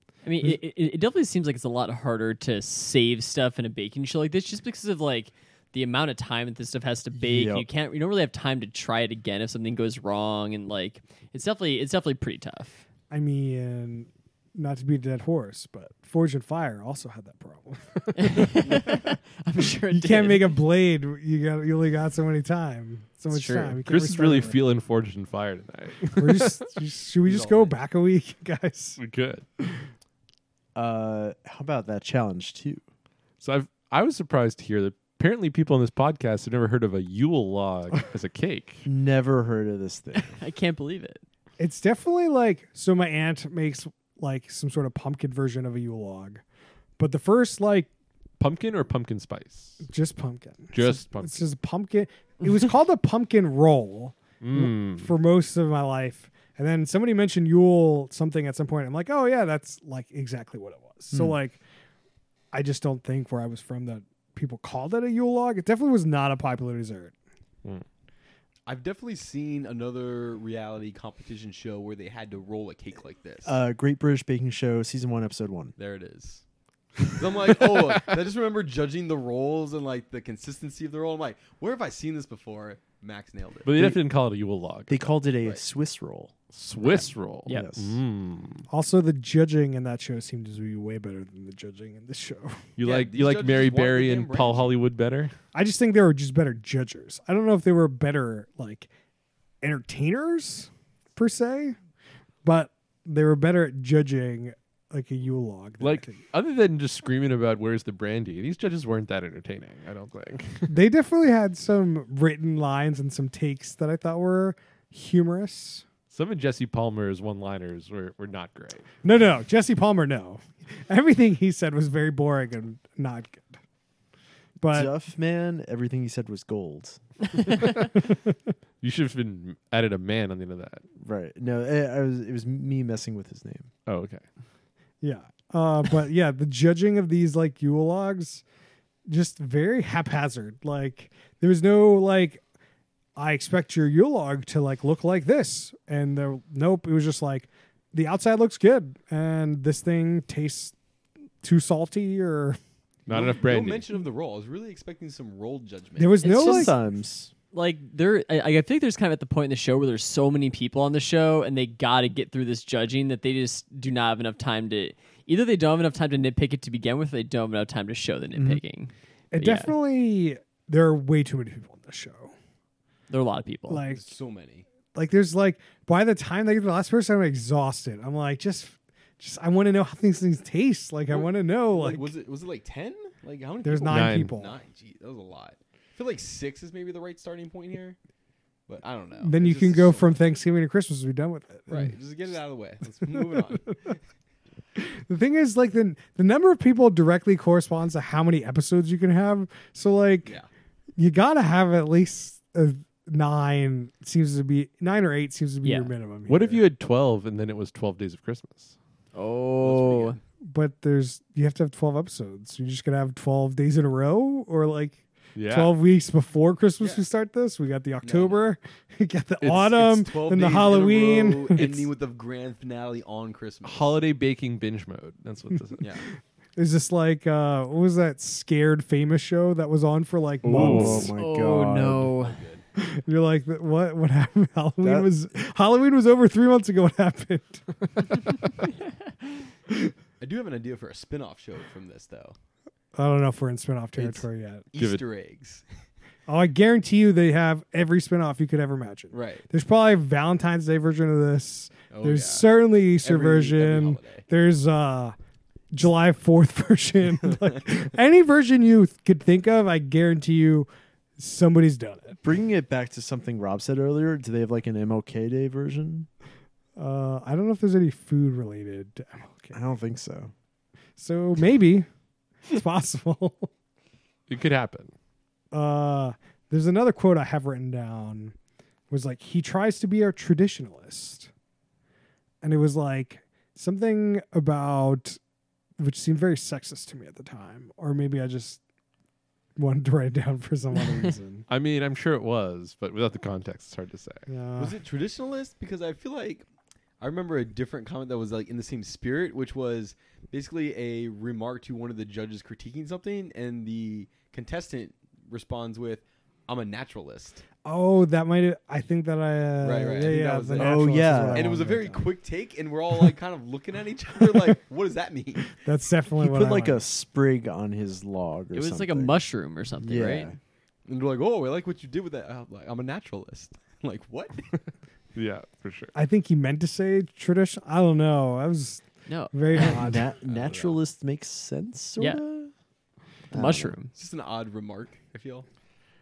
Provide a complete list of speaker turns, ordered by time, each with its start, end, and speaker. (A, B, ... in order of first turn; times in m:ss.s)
0:00.2-0:12.8 A
0:07.1-0:07.6 B
0:13.1-0:18.8 C
0:18.1-0:20.5 A
0:19.9-0:24.6 C
0:23.3-0:23.8 A
0:23.8-0:26.7 D
0:26.2-0:29.0 C
0:27.2-0:27.7 E
0:29.0-0:29.4 D
0:29.6-0:29.8 C
0:30.7-0:32.8 B
0:33.4-0:38.8 D
0:38.8-0:40.4 B
0:40.2-0:41.2 A
0:41.6-0:46.4 C
0:47.0-0:47.9 C
0:48.4-0:49.8 D
0:49.8-1:01.6 C
0:50.7-0:51.4 D
0:54.4-0:55.1 D
1:01.1-1:01.4 B
1:02.5-1:07.1 C
1:08.6-1:13.6 E
1:13.4-1:15.7 B
1:15.8-1:16.4 E
1:17.1-1:23.7 E
1:23.6-1:25.1 D
1:24.9-1:26.3 B
1:26.5-1:28.7 D
1:27.5-1:27.7 A
1:27.5-1:28.0 B
1:28.7-1:32.6 C
1:32.8-1:35.3 D
1:32.8-1:34.7 E
1:35.5-1:38.9 C
1:39.6-1:41.8 C
1:42.4-1:46.2 C
1:45.8-1:50.7 D
1:50.7-1:55.8 C
1:56.1-1:58.9 D
1:59.0-2:03.5 C
2:04.6-2:04.9 C
2:04.7-2:07.0 B
2:07.6-2:07.8 D
2:08.8-2:10.8 D
2:11.0-2:13.7 B
2:13.8-2:14.2 D
2:15.0-2:18.4 C
2:19.1-2:22.4 C
2:23.2-2:30.7 C
2:31.4-2:32.6 C
2:33.0-2:33.9 D
2:33.1-2:36.3 E
2:36.0-2:36.7 C
2:36.2-2:36.7 A
2:36.2-2:37.3 B
2:37.5-2:49.7 A
2:48.3-2:48.6 B
2:49.3-2:52.3 C
2:53.1-2:53.8 A
2:53.7-2:54.1 C
2:53.9-2:54.6 E
2:54.9-3:02.1 C
3:01.1-3:08.0 E
3:03.6-3:04.6 C
3:03.8-3:04.3 D
3:08.7-3:10.2 E
3:09.2-3:11.9 C
3:11.7-3:14.0 E
3:13.1-3:13.4 C
3:14.8-3:20.3 C
3:21.0-3:26.6 C
3:25.6-3:25.9 A
3:26.3-3:28.7 D
3:29.1-3:30.2 A
3:29.6-3:30.2 E
3:30.5-3:41.9 C
3:35.4-3:35.7 D
3:38.0-3:38.4 E
3:39.4-3:39.9 D
3:39.8-3:44.0 E
3:43.6-3:45.9 D
3:46.6-3:51.1 C
3:50.4-3:52.1 B
3:50.5-3:51.1 D
3:51.1-3:52.4 A
3:52.1-3:52.6 E
3:52.8-3:58.3 C
3:54.8-3:55.1 B
4:00.2-4:02.3 E
4:02.9-4:04.7 C
4:04.0-4:05.6 E
4:04.8-4:05.0 D
4:06.3-4:15.1 C
4:09.1-4:09.4 E
4:11.9-4:12.5 E
4:13.0-4:14.2 E
4:15.7-4:22.2 C
4:22.2-4:26.1 B
4:26.8-4:29.6 C
4:29.5-4:30.3 B
4:31.0-4:31.9 C
4:32.5-4:33.5 C
4:34.3-4:34.9 D
4:35.5-4:38.3 C
4:38.9-4:41.3 C
4:42.4-4:45.2 C
4:45.8-4:48.6 C
4:49.6-4:51.4 C
4:51.5-4:54.3 D
4:54.3-4:54.8 C
4:54.6-4:56.4 E
4:57.0-5:07.4 E
5:07.6-5:12.0 C
5:09.6-5:15.5 E
5:10.6-5:11.7 B
5:15.6-5:16.8 C
5:16.2-5:19.2 B
5:18.5-5:20.3 A
5:19.8-5:20.4 B
5:20.8-5:24.5 E
5:25.2-5:25.9 D
5:25.9-5:30.1 C
5:29.1-5:29.8 A
5:29.5-5:32.5 B
5:30.2-5:30.8 E
5:33.3-5:33.7 B
5:33.3-5:33.9 A
5:33.9-5:35.4 E